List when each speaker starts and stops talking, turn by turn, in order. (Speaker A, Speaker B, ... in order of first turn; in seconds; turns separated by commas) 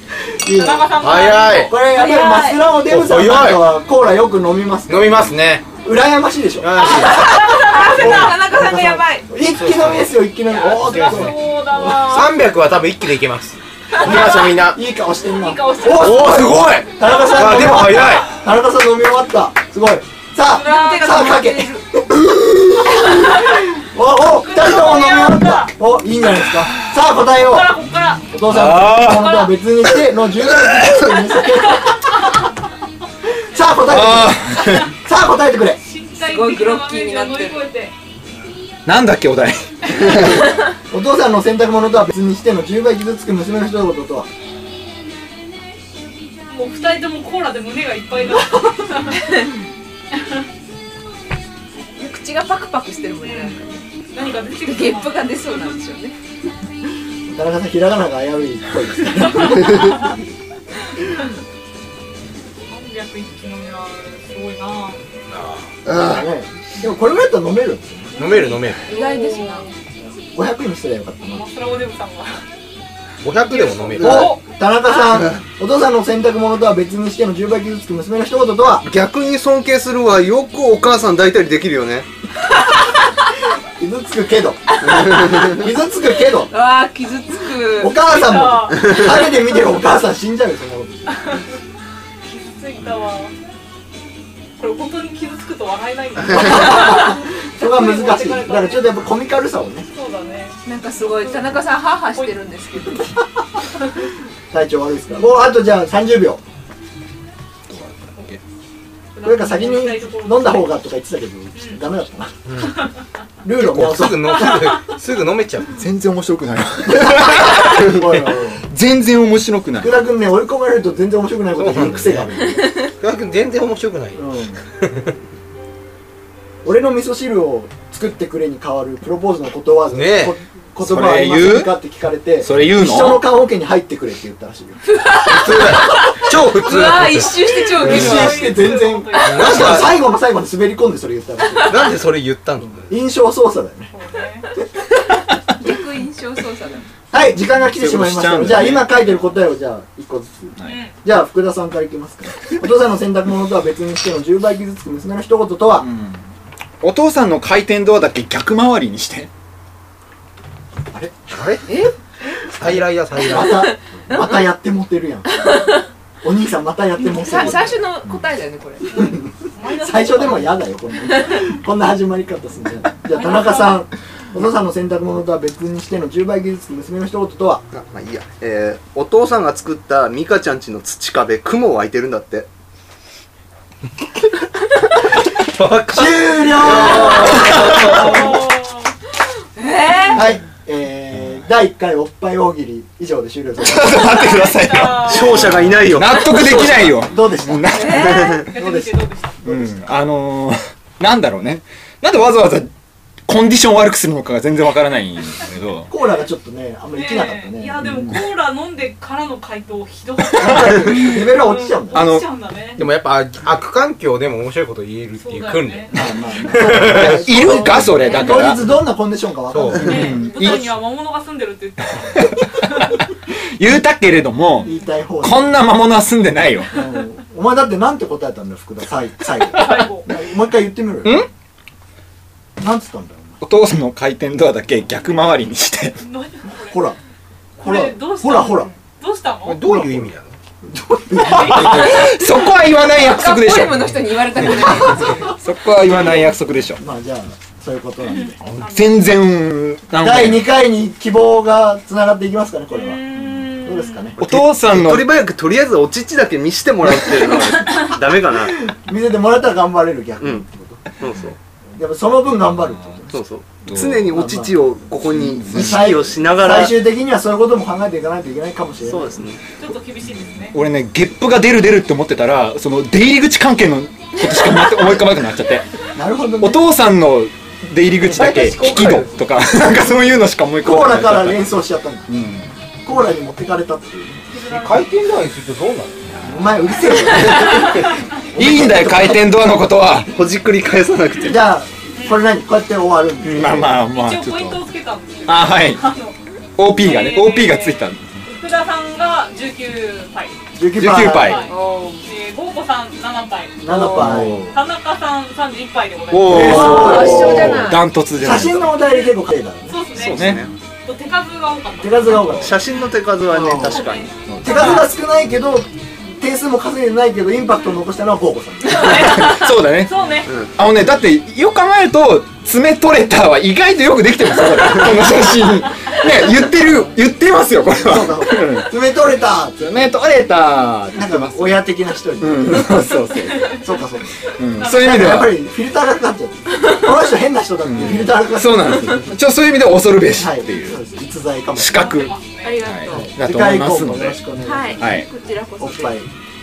Speaker A: 0.3-11.4, Speaker B: 0.5-1.8, Speaker C: 1.0-1.8, Speaker D: 1.8-2.7, Speaker C: 2.8-3.6, Speaker C: 4.9-5.7, Speaker C: 6.6-7.3, Speaker D: 6.9-9.3, Speaker C: 9.4-14.8, Speaker B: 10.5-12.4, Speaker A: 14.0-27.7, Speaker B: 15.2-17.6, Speaker C: 15.9-18.3, Speaker D: 20.5-21.9, Speaker B: 20.6-21.4, Speaker B: 24.3-25.7, Speaker B: 27.3-28.2, Speaker A: 28.3-32.0, Speaker E: 28.4-29.4, Speaker B: 28.9-29.5, Speaker E: 30.4-31.1, Speaker A: 33.5-35.8, Speaker E: 33.9-34.9, Speaker B: 35.8-37.9, Speaker D: 36.2-37.7, Speaker E: 38.9-40.2, Speaker A: 40.9-44.3, Speaker B: 46.5-49.2, Speaker D: 49.1-49.4, Speaker D: 52.0-53.8, Speaker B: 53.2-53.6, Speaker B: 54.1-55.8, Speaker D: 54.5-56.1, Speaker A: 57.3-60.0, Speaker B: 59.3-59.9, Speaker B: 62.7-65.0, Speaker C: 65.3-65.7, Speaker F: 65.9-66.2, Speaker A: 65.9-68.2, Speaker C: 68.2-68.9, Speaker B: 68.2-69.7, Speaker D: 68.8-69.7, Speaker A: 70.0-71.4, Speaker B: 71.3-72.4, Speaker C: 73.2-74.3, Speaker B: 73.4-74.4, Speaker A: 74.0-78.8, Speaker F: 78.8-82.1, Speaker A: 83.8-86.5, Speaker D: 84.9-85.4, Speaker D: 86.5-88.0, Speaker A: 87.8-91.3, Speaker B: 88.0-89.3, Speaker B: 91.1-91.5, Speaker B: 92.2-93.3, Speaker B: 94.6-98.9, Speaker A: 96.3-99.8, Speaker B: 99.9-102.4, Speaker D: 100.6-103.2, Speaker A: 104.5-106.4, Speaker C: 107.7-108.4, Speaker B: 109.1-110.8, Speaker A: 109.2-112.3, Speaker C: 112.5-112.8, Speaker A: 113.4-114.8, Speaker C: 113.5-115.7, Speaker B: 114.4-114.8, Speaker E: 115.8-120.0, Speaker A: 116.9-118.6, Speaker A: 119.8-122.9, Speaker C: 121.5-122.3, Speaker C: 123.0-124.2, Speaker A: 124.1-124.6, Speaker A: 126.6-134.8, Speaker C: 129.9-130.3, Speaker E: 130.8-131.8, Speaker E: 132.4-133.3, Speaker D: 134.9-138.6, Speaker C: 135.3-138.3, Speaker F: 136.3-137.1, Speaker B: 137.7-139.9, Speaker A: 137.8-141.9, Speaker C: 139.2-140.0, Speaker F: 141.7-142.8, Speaker C: 141.8-142.2, Speaker A: 142.8-143.9, Speaker B: 143.9-144.5, Speaker D: 145.6-146.9, Speaker A: 147.1-155.9, Speaker E: 147.1-149.3, Speaker B: 150.6-150.9, Speaker E: 155.8-156.2, Speaker E: 156.8-159.3, Speaker A: 160.9-161.3, Speaker C: 161.3-161.9, Speaker C: 162.5-163.7, Speaker A: 163.2-165.6, Speaker D: 163.3-164.3, Speaker A: 166.2-167.8, Speaker D: 167.0-169.2, Speaker B: 167.4-167.7, Speaker A: 168.9-177.6, Speaker B: 169.6-170.6, Speaker B: 173.1-173.8, Speaker F: 177.7-182.5, Speaker C: 185.5-187.4, Speaker A: 185.9-188.1, Speaker F: 186.7-188.3, Speaker E: 187.4-188.0, Speaker B: 187.8-188.9, Speaker D: 189.5-190.3, Speaker A: 190.1-194.4, Speaker E: 193.6-198.4, Speaker B: 194.1-195.5, Speaker F: 195.0-197.0, Speaker A: 196.9-199.8, Speaker D: 197.7-198.4, Speaker B: 198.2-199.4, Speaker E: 199.4-202.7, Speaker E: 203.3-205.9, Speaker A: 205.9-208.2, Speaker B: 206.9-212.8, Speaker E: 207.8-208.2, Speaker A: 210.3-212.1, Speaker E: 210.4-211.1, Speaker E: 211.9-212.2, Speaker C: 212.8-217.3, Speaker B: 215.2-215.9, Speaker A: 215.9-220.5, Speaker E: 216.6-218.6, Speaker B: 217.9-218.5, Speaker C: 219.5-220.0, Speaker E: 219.7-220.7, Speaker B: 219.8-223.0, Speaker E: 222.0-222.5, Speaker E: 223.3-226.8, Speaker B: 224.6-224.9, Speaker A: 224.6-225.6, Speaker A: 226.7-231.2, Speaker B: 229.5-230.1, Speaker E: 231.0-231.3, Speaker A: 232.6-233.4, Speaker E: 233.4-236.0, Speaker B: 236.0-236.8, Speaker A: 236.6-236.9, Speaker B: 237.6-239.6, Speaker A: 237.6-238.7, Speaker C: 239.4-240.3, Speaker A: 239.7-240.1, Speaker A: 240.6-241.9, Speaker E: 241.3-246.8, Speaker C: 241.5-241.9, Speaker D: 242.8-245.3, Speaker A: 244.6-245.3, Speaker A: 245.9-248.4, Speaker B: 248.1-249.0, Speaker C: 248.4-248.8, Speaker E: 248.6-250.5, Speaker A: 250.0-253.0, Speaker B: 252.7-254.1, Speaker A: 253.6-254.2, Speaker F: 254.2-258.6, Speaker E: 254.2-255.2, Speaker A: 258.6-260.8, Speaker F: 260.2-260.4, Speaker F: 261.0-261.4, Speaker A: 261.8-263.1, Speaker E: 262.6-263.0, Speaker F: 263.1-266.8, Speaker E: 263.7-264.1, Speaker A: 264.0-264.6, Speaker E: 265.1-266.2, Speaker A: 265.5-269.2, Speaker F: 268.8-269.4, Speaker B: 269.6-270.6, Speaker E: 270.5-275.7, Speaker A: 275.9-276.7, Speaker E: 276.4-281.5, Speaker F: 278.2-279.0, Speaker A: 280.6-282.1, Speaker E: 282.1-282.5, Speaker A: 282.8-284.2, Speaker B: 284.3-284.9, Speaker C: 284.5-286.1, Speaker E: 286.1-287.7, Speaker A: 286.2-287.8, Speaker A: 288.3-289.2, Speaker E: 288.3-290.1, Speaker F: 290.1-291.4, Speaker A: 291.2-293.8, Speaker B: 292.0-292.2, Speaker E: 293.2-294.6, Speaker B: 293.9-296.1, Speaker E: 295.2-295.9, Speaker E: 296.6-298.1, Speaker B: 296.8-300.4, Speaker A: 300.5-301.4, Speaker E: 300.7-301.5, Speaker B: 301.1-303.6, Speaker D: 301.5-302.1, Speaker A: 303.6-304.5, Speaker D: 303.7-304.3, Speaker E: 303.9-304.5, Speaker B: 304.5-307.1, Speaker E: 306.1-308.8, Speaker A: 306.3-309.8, Speaker D: 306.3-307.8, Speaker B: 308.8-309.1, Speaker B: 309.7-312.9, Speaker F: 309.9-310.5, Speaker E: 310.1-310.5, Speaker A: 311.8-312.6, Speaker E: 312.1-312.4, Speaker F: 312.3-314.1, Speaker A: 313.3-313.8, Speaker B: 313.5-314.9, Speaker E: 314.3-314.9, Speaker A: 314.4-315.7, Speaker A: 316.2-319.1, Speaker B: 318.6-320.3, Speaker E: 318.8-320.0, Speaker F: 320.2-320.5, Speaker E: 320.5-328.7, Speaker A: 327.8-329.9, Speaker E: 329.6-331.6, Speaker A: 330.9-332.9, Speaker E: 332.2-333.6, Speaker B: 333.2-333.6, Speaker A: 333.5-339.0, Speaker E: 334.3-335.4, Speaker B: 334.6-335.3, Speaker E: 337.6-340.8, Speaker A: 340.2-342.0, Speaker E: 341.5-344.2, Speaker B: 341.8-342.6, Speaker D: 342.4-343.1, Speaker A: 342.9-344.9, Speaker D: 344.4-346.0, Speaker E: 344.8-345.1, Speaker A: 345.6-346.1